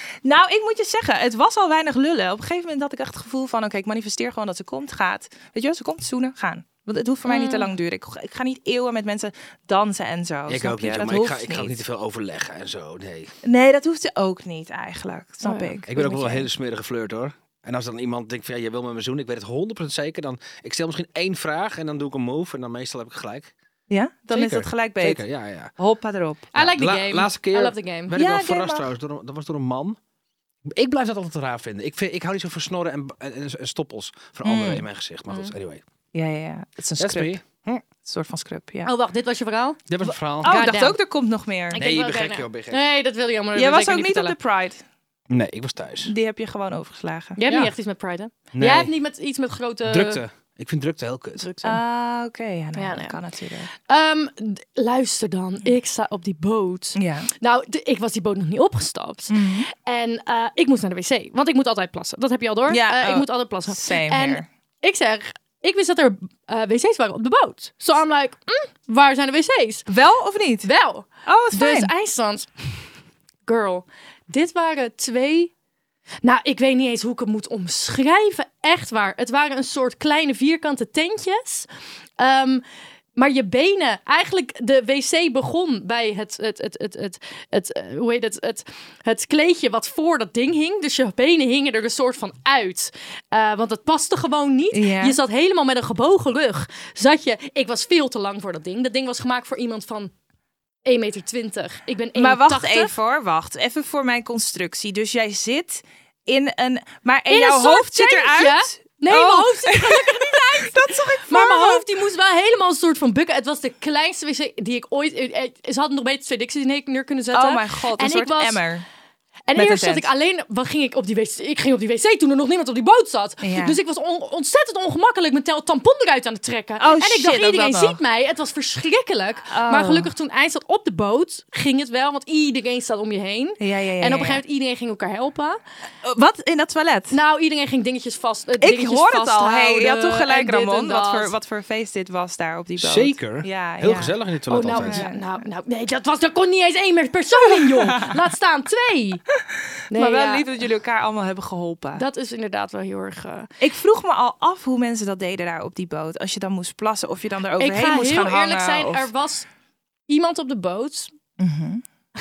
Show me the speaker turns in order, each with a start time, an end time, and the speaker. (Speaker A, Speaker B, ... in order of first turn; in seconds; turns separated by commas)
Speaker A: 0.2-11.8, Speaker B: 7.3-7.7, Speaker C: 10.5-13.3, Speaker A: 13.4-16.2, Speaker B: 15.4-16.4, Speaker C: 15.9-23.5, Speaker A: 23.9-25.2, Speaker C: 24.3-25.7, Speaker A: 25.8-26.5, Speaker B: 26.5-28.1, Speaker C: 26.5-30.0, Speaker A: 28.1-28.9, Speaker C: 30.7-35.8, Speaker A: 34.4-34.8, Speaker A: 36.1-37.4, Speaker C: 37.0-37.8, Speaker A: 38.0-38.9, Speaker B: 38.8-39.9, Speaker C: 39.9-40.6, Speaker B: 40.4-41.0, Speaker A: 40.4-41.8, Speaker B: 41.7-44.4, Speaker C: 41.8-42.8, Speaker A: 43.5-44.8, Speaker C: 45.3-46.1, Speaker A: 46.0-47.4, Speaker B: 47.4-50.2, Speaker C: 48.5-48.9, Speaker C: 49.8-51.5, Speaker B: 51.4-51.8, Speaker A: 51.6-53.7, Speaker B: 52.8-53.1, Speaker B: 53.9-69.9, Speaker A: 56.9-57.3, Speaker A: 59.3-59.7, Speaker A: 62.7-64.5, Speaker A: 69.9-70.7, Speaker B: 70.6-72.8, Speaker A: 71.2-71.9, Speaker B: 73.5-75.5, Speaker B: 76.2-81.7, Speaker B: 82.2-82.6, Speaker B: 83.2-100.1, Speaker A: 94.7-95.2, Speaker B: 100.8-102.9, Speaker A: 102.1-111.8, Speaker B: 107.3-118.6, Speaker A: 117.3-118.8, Speaker B: 119.5-135.6, Speaker A: 119.5-120.1, Speaker A: 123.4-123.8, Speaker A: 126.8-128.0, Speaker A: 129.5-130.1, Speaker A: 133.6-134.4, Speaker A: 136.0-137.2, Speaker B: 137.1-141.3, Speaker A: 138.6-144.1, Speaker C: 142.8-145.0, Speaker B: 144.5-149.2, Speaker A: 144.7-145.2, Speaker A: 147.6-148.1, Speaker B: 149.9-150.4, Speaker A: 149.9-152.0, Speaker B: 152.0-153.5, Speaker A: 153.6-159.1, Speaker B: 157.6-159.5, Speaker B: 160.1-161.1, Speaker A: 161.4-161.8